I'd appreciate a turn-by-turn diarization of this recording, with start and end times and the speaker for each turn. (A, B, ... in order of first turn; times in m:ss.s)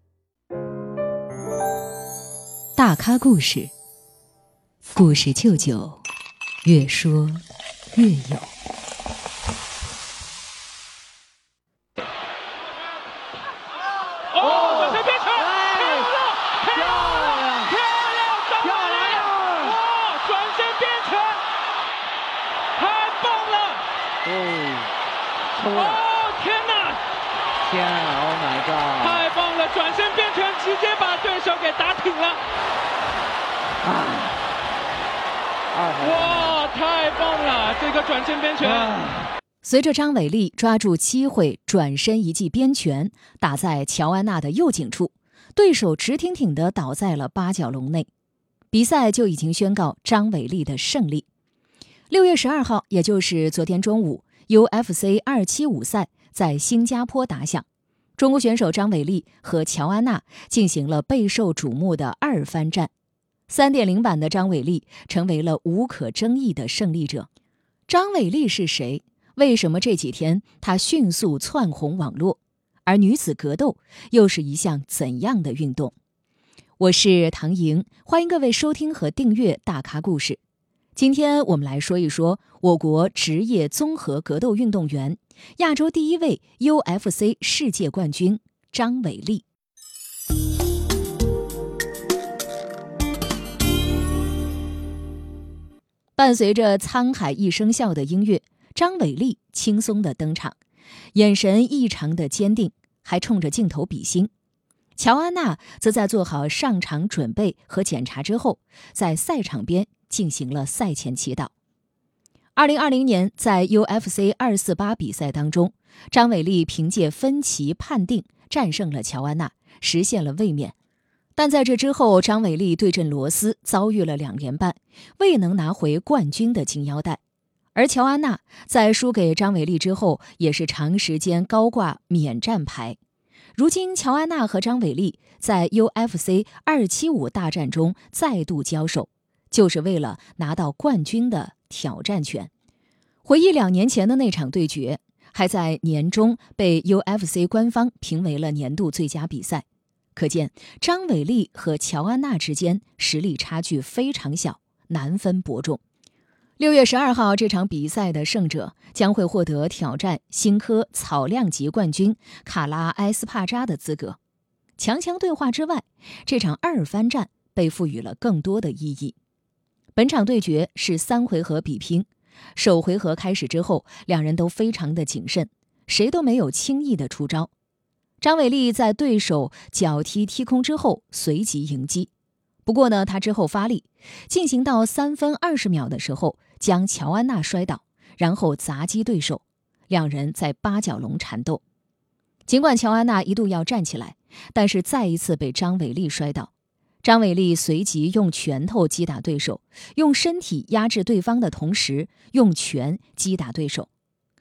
0:02.8-0:03.7 A
0:04.8-0:06.0 A
0:06.6-0:08.5 A
0:14.3-0:21.4 B
0:17.0-0:17.7 C
0:18.9-0:19.7 C
0:22.8-0:23.8 B
0:24.3-0:24.8 C
0:25.6-0:26.0 C
0:25.7-0:27.0 B
0:27.7-0:29.2 C
0:29.0-0:32.4 B
0:35.8-0:36.6 C
0:36.0-0:39.2 B
0:39.6-0:48.1 A
0:48.7-0:51.3 A
0:52.1-0:57.6 A
0:58.2-1:02.9 A
1:03.5-1:07.3 A
1:07.9-1:16.0 A
1:16.8-1:20.4 A
1:21.0-1:29.5 A
1:36.2-1:40.6 A
1:41.1-1:44.3 A
1:45.0-1:51.5 A
1:52.6-2:00.8 A
2:01.4-2:07.2 A
2:07.8-2:13.0 A
2:13.6-2:22.5 A
2:23.2-2:35.8 A
2:36.6-2:44.2 A
2:44.8-2:49.2 A
2:50.0-2:57.5 A
2:58.2-3:02.1 A
3:02.7-3:11.6 A
3:12.5-3:16.5 A
3:17.0-3:23.9 A